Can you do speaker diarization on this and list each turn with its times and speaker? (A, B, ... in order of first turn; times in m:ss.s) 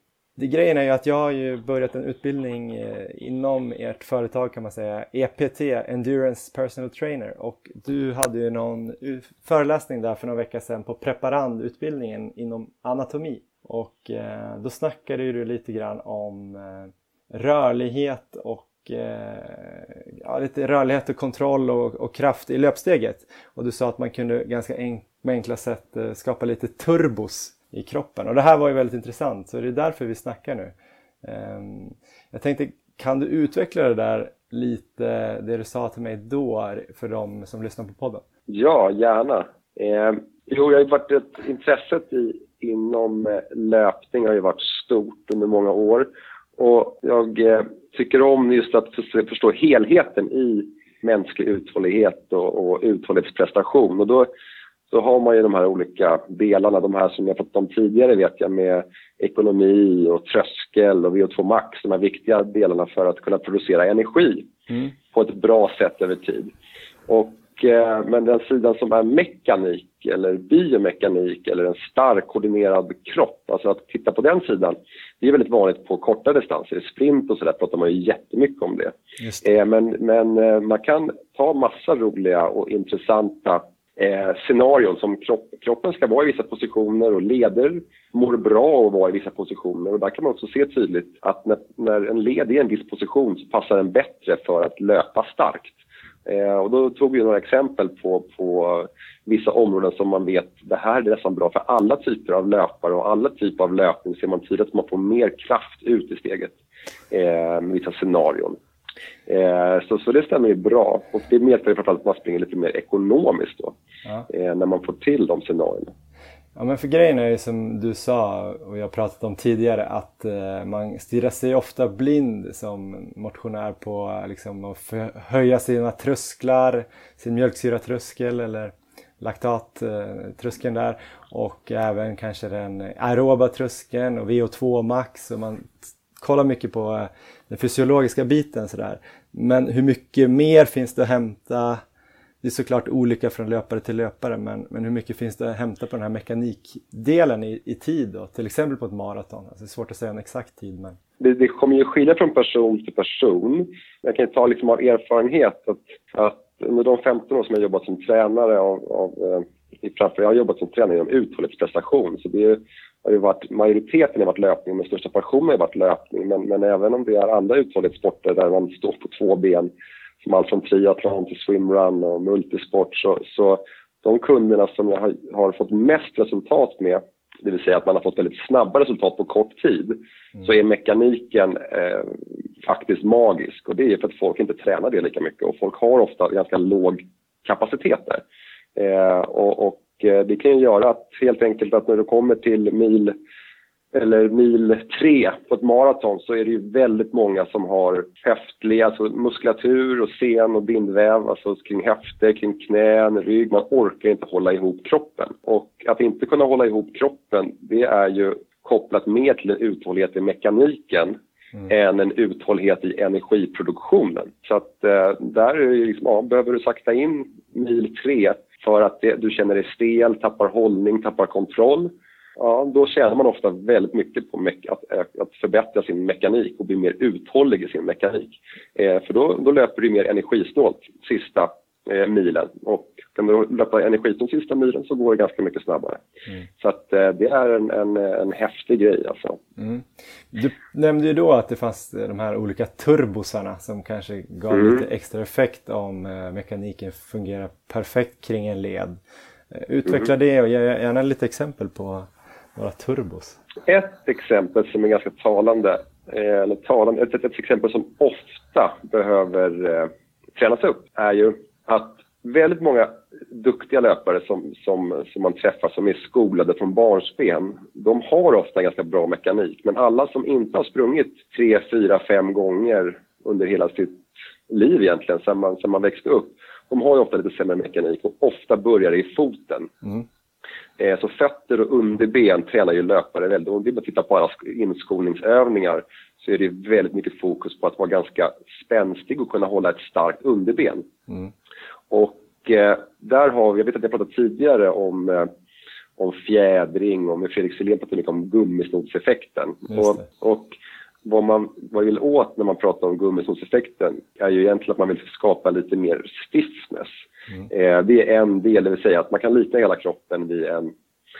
0:00.4-0:38.2 A
0:38.5-0:54.3 B
0:54.9-1:04.5 B
1:04.7-1:04.9 A
1:05.1-1:06.5 B
1:07.1-1:35.7 B
1:19.2-1:19.4 A
1:36.2-1:46.5 B
1:47.1-1:48.6 B
1:49.3-1:53.7 B
1:54.3-1:55.9 B
1:56.5-2:21.8 A
2:22.4-2:31.0 A
2:31.2-2:49.7 B
2:50.2-3:08.2 B
3:08.8-3:13.2 B
3:13.9-3:56.0 B
3:56.6-3:59.4 B
3:59.6-4:09.0 A
4:04.5-4:04.8 B
4:09.5-4:13.4 A
4:13.6-4:39.7 B
4:40.8-4:50.9 B
4:51.9-4:55.3 B
4:56.0-5:10.7 B
4:59.7-5:00.0 A